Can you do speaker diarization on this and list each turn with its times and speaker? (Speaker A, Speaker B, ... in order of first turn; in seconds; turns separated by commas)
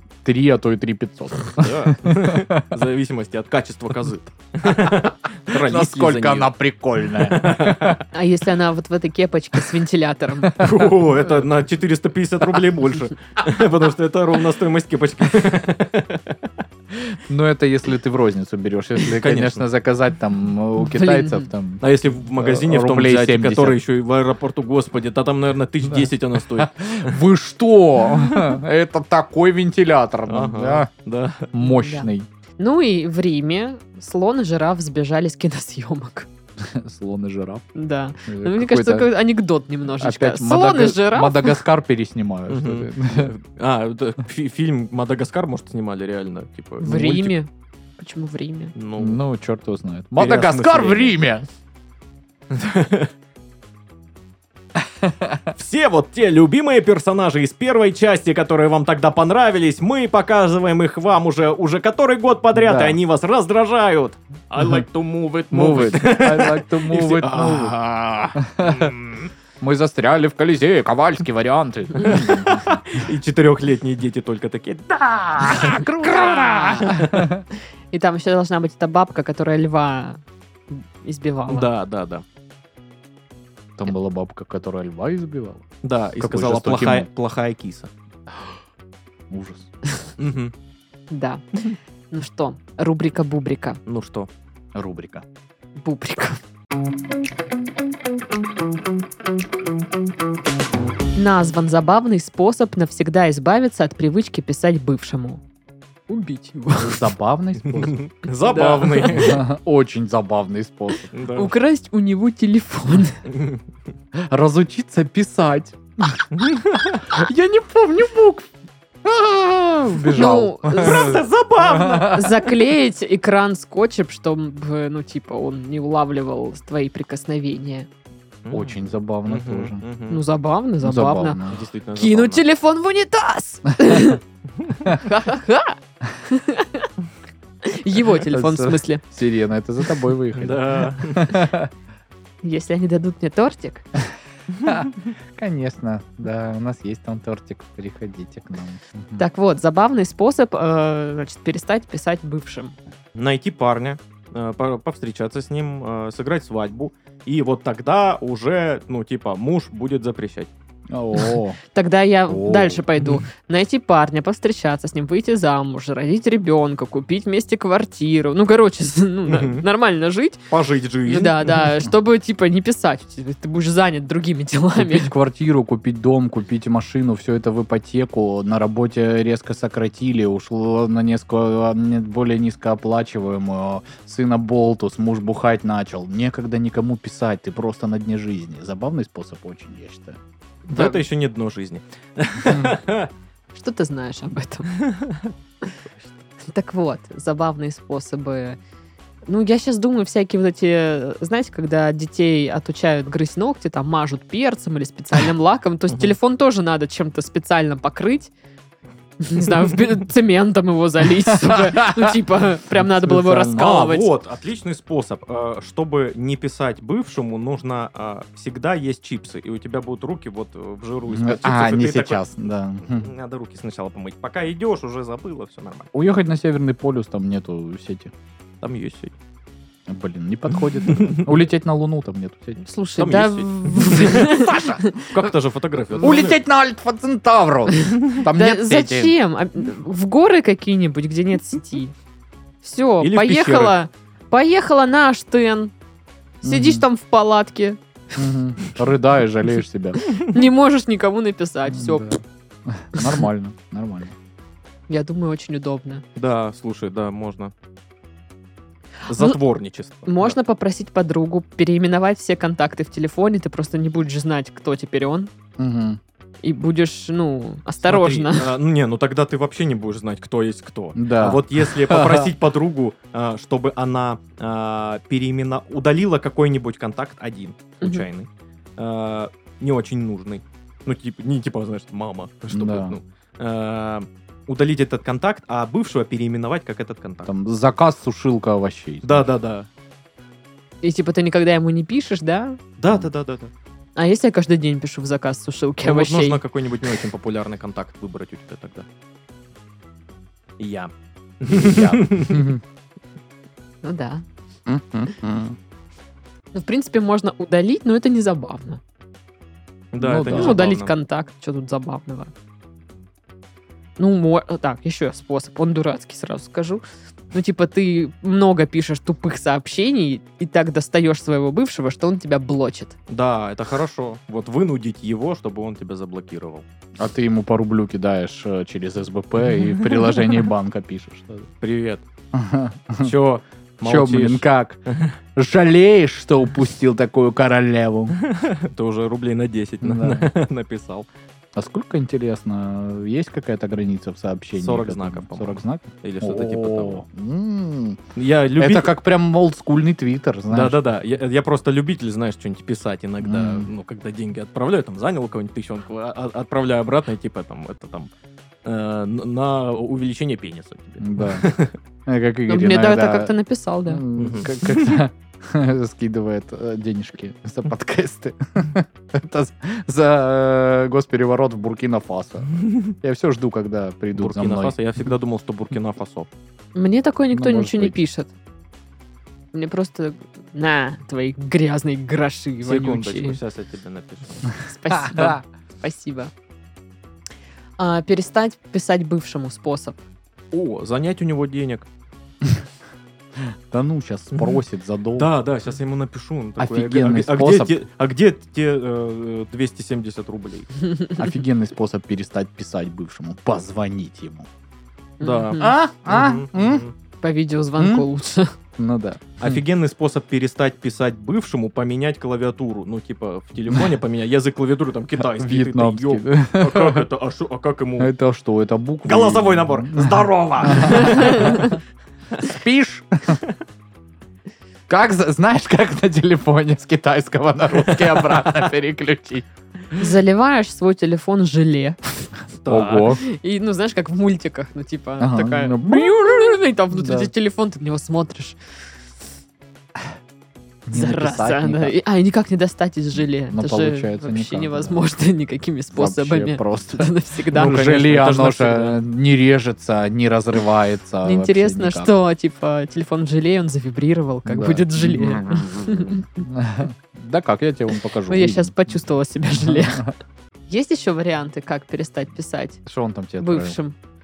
Speaker A: 0.2-2.6, Speaker B: 1.5-6.5, Speaker A: 4.7-4.9, Speaker A: 5.5-8.0, Speaker B: 7.1-8.0, Speaker C: 8.1-10.6, Speaker B: 10.6-16.4, Speaker A: 17.2-23.8, Speaker B: 19.0-19.6, Speaker C: 20.8-21.5, Speaker B: 21.8-27.2, Speaker A: 25.8-30.9, Speaker B: 28.1-28.5, Speaker B: 30.3-31.5, Speaker A: 31.5-32.3, Speaker C: 31.6-36.3, Speaker A: 36.6-37.7, Speaker C: 37.7-41.6, Speaker A: 38.2-39.1, Speaker A: 40.0-43.3, Speaker B: 42.5-47.3, Speaker C: 46.8-48.7, Speaker B: 48.7-49.2, Speaker A: 49.0-51.5, Speaker B: 50.1-51.1, Speaker B: 52.5-53.1, Speaker A: 55.0-55.4, Speaker B: 55.5-69.3, Speaker A: 62.5-63.0, Speaker A: 65.5-67.7, Speaker A: 68.3-68.9, Speaker A: 69.6-72.6, Speaker B: 72.0-77.3, Speaker A: 75.4-77.4, Speaker C: 77.9-81.7, Speaker B: 81.5-82.2, Speaker A: 83.8-85.7, Speaker B: 85.8-87.9, Speaker A: 86.2-87.1, Speaker A: 89.3-89.7, Speaker B: 90.2-90.5, Speaker C: 91.1-91.4, Speaker C: 92.1-93.8, Speaker B: 93.8-94.3, Speaker A: 94.7-95.2, Speaker C: 95.8-96.4, Speaker C: 101.1-105.4, Speaker C: 106.1-107.1, Speaker A: 106.7-108.0, Speaker B: 107.7-109.4, Speaker C: 108.4-109.4, Speaker A: 109.1-111.1, Speaker B: 111.1-111.5, Speaker C: 111.3-113.2, Speaker B: 113.3-113.6, Speaker A: 114.2-116.3, Speaker B: 116.3-117.0, Speaker A: 117.1-118.5, Speaker A: 119.0-122.4, Speaker B: 120.0-122.2, Speaker C: 120.1-121.2, Speaker C: 121.8-127.9, Speaker B: 128.4-130.2, Speaker A: 128.5-129.8, Speaker C: 130.1-131.4, Speaker A: 130.8-131.6, Speaker B: 131.5-132.4, Speaker C: 131.9-134.2, Speaker B: 134.6-134.9, Speaker C: 134.9-136.9, Speaker C: 137.6-139.0, Speaker A: 138.3-141.7, Speaker B: 140.3-141.4, Speaker C: 142.4-143.8, Speaker A: 144.7-149.2, Speaker C: 149.2-152.7, Speaker B: 153.1-160.5, Speaker A: 160.9-161.6, Speaker C: 161.2-170.5, Speaker A: 162.3-162.8, Speaker B: 169.3-169.6, Speaker B: 170.5-171.7, Speaker C: 171.1-175.1, Speaker A: 174.8-190.2, Speaker C: 190.7-191.0, Speaker B: 190.7-193.1, Speaker A: 192.4-192.7, Speaker C: 193.5-194.7, Speaker B: 194.8-195.3, Speaker C: 196.4-198.6, Speaker C: 199.2-208.3, Speaker C: 209.2-214.1, Speaker A: 211.3-212.2, Speaker A: 212.7-213.6, Speaker B: 213.5-222.2, Speaker A: 221.1-223.1, Speaker B: 222.9-225.9, Speaker A: 225.9-228.1, Speaker B: 228.6-229.1, Speaker A: 229.9-232.6, Speaker B: 230.8-231.3, Speaker C: 232.6-235.1, Speaker B: 232.9-234.4, Speaker A: 234.1-234.8, Speaker B: 235.0-236.4, Speaker A: 235.9-239.1, Speaker C: 238.3-241.9, Speaker C: 242.6-245.7, Speaker B: 243.0-243.8, Speaker A: 246.4-246.8, Speaker C: 246.4-247.8, Speaker A: 248.2-250.1, Speaker C: 250.2-252.2, Speaker A: 251.7-254.1, Speaker C: 254.9-256.0, Speaker B: 256.1-257.5, Speaker B: 259.1-260.4, Speaker C: 260.1-265.3, Speaker A: 265.6-266.0, Speaker C: 266.4-268.5, Speaker B: 267.8-287.3, Speaker A: 270.9-272.3, Speaker C: 277.8-278.1, Speaker A: 282.5-283.0, Speaker A: 287.2-289.3, Speaker B: 289.0-289.7, Speaker C: 290.8-292.6, Speaker B: 292.8-293.5, Speaker C: 293.9-296.4, Speaker B: 295.8-298.9, Speaker B: 300.6-302.5, Speaker A: 301.5-302.6, Speaker C: 303.8-304.2, Speaker A: 304.6-305.6, Speaker C: 306.5-308.8, Speaker B: 309.9-310.9, Speaker A: 310.0-310.6, Speaker C: 310.2-312.3, Speaker C: 314.0-322.9, Speaker B: 323.1-326.6, Speaker A: 327.0-331.5, Speaker B: 329.7-330.3, Speaker B: 331.6-332.0, Speaker A: 332.3-333.1, Speaker B: 333.0-335.1, Speaker A: 333.8-334.8, Speaker A: 335.4-338.1, Speaker B: 338.1-341.1, Speaker A: 339.8-340.3, Speaker A: 341.6-348.0, Speaker B: 344.5-347.0, Speaker B: 348.1-348.9, Speaker A: 348.6-350.8, Speaker B: 350.5-358.1, Speaker A: 353.2-353.7, Speaker B: 358.6-361.7, Speaker A: 361.0-361.5, Speaker A: 362.1-363.3, Speaker C: 362.5-364.0, Speaker A: 363.9-374.7, Speaker B: 364.2-365.0, Speaker B: 372.5-372.9, Speaker B: 374.1-376.3, Speaker C: 376.7-378.3, Speaker A: 377.3-377.9, Speaker C: 379.5-383.4, Speaker B: 382.6-384.5, Speaker C: 384.6-386.3, Speaker A: 384.9-385.4, Speaker C: 387.8-390.0, Speaker B: 390.5-391.9, Speaker A: 393.4-395.3, Speaker B: 395.2-400.7, Speaker A: 396.6-397.7, Speaker A: 401.2-404.5, Speaker C: 405.2-405.7, Speaker B: 405.2-406.9, Speaker A: 405.6-406.8, Speaker C: 407.2-408.5, Speaker A: 407.8-408.1, Speaker A: 408.8-409.6, Speaker B: 409.4-418.1, Speaker A: 415.2-417.1, Speaker A: 418.0-421.7, Speaker B: 419.1-421.7, Speaker C: 420.9-421.7, Speaker A: 422.4-423.4, Speaker A: 424.9-429.4, Speaker B: 427.7-428.4, Speaker C: 430.0-432.3, Speaker B: 432.6-433.1, Speaker A: 432.6-433.2, Speaker C: 433.2-438.6, Speaker A: 435.2-436.2, Speaker A: 436.9-437.3, Speaker A: 440.9-441.9, Speaker C: 440.9-447.9, Speaker A: 443.5-445.0, Speaker A: 445.9-452.1, Speaker B: 447.5-449.0, Speaker C: 451.2-456.4, Speaker A: 454.4-458.7, Speaker C: 458.3-460.1, Speaker A: 459.6-460.1, Speaker C: 460.7-462.8, Speaker A: 462.9-463.8, Speaker C: 463.4-463.9